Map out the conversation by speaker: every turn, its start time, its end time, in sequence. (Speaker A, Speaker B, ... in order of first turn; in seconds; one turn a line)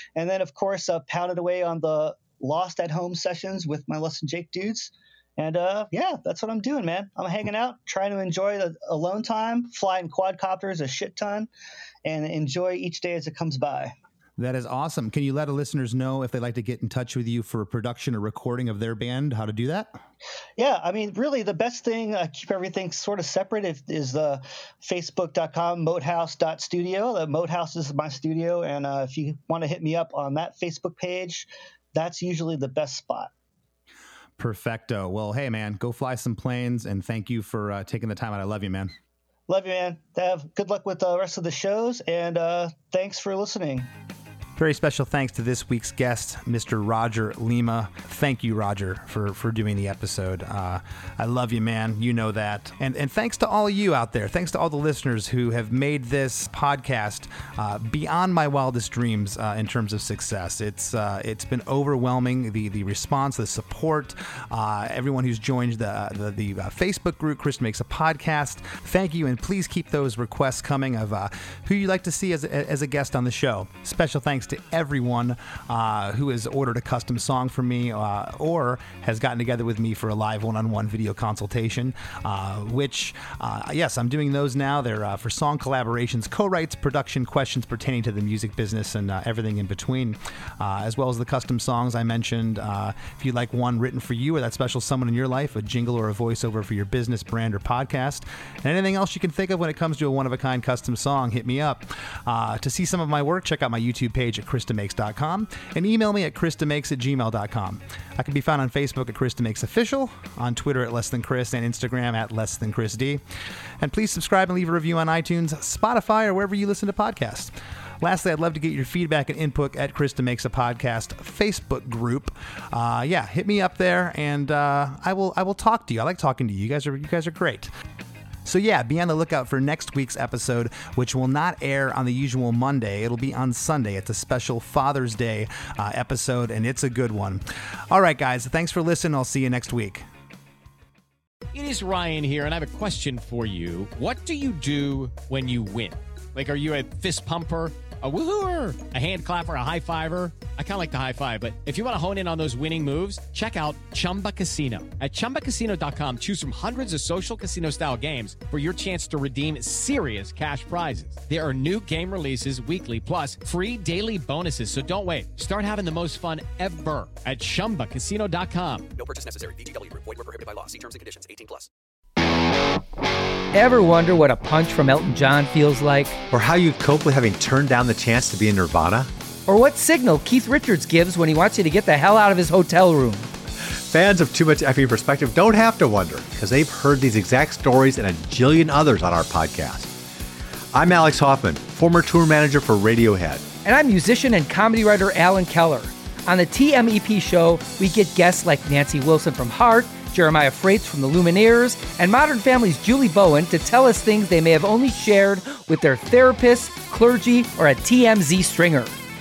Speaker A: 0.2-11.5
Speaker A: 12.1-13.9
Speaker B: 14.4-20.0
Speaker A: 20.6-33.3
Speaker B: 34.4-38.9
Speaker A: 39.5-43.9
Speaker B: 44.6-113.2
Speaker B: 113.8-127.7
Speaker B: 128.4-140.1
Speaker C: 141.5-168.9
Speaker D: 168.9-171.7
Speaker E: 173.5-176.2
Speaker F: 176.3-179.1
Speaker E: 179.5-183.3
Speaker F: 183.7-189.9
Speaker F: 190.7-193.5
Speaker E: 193.6-208.9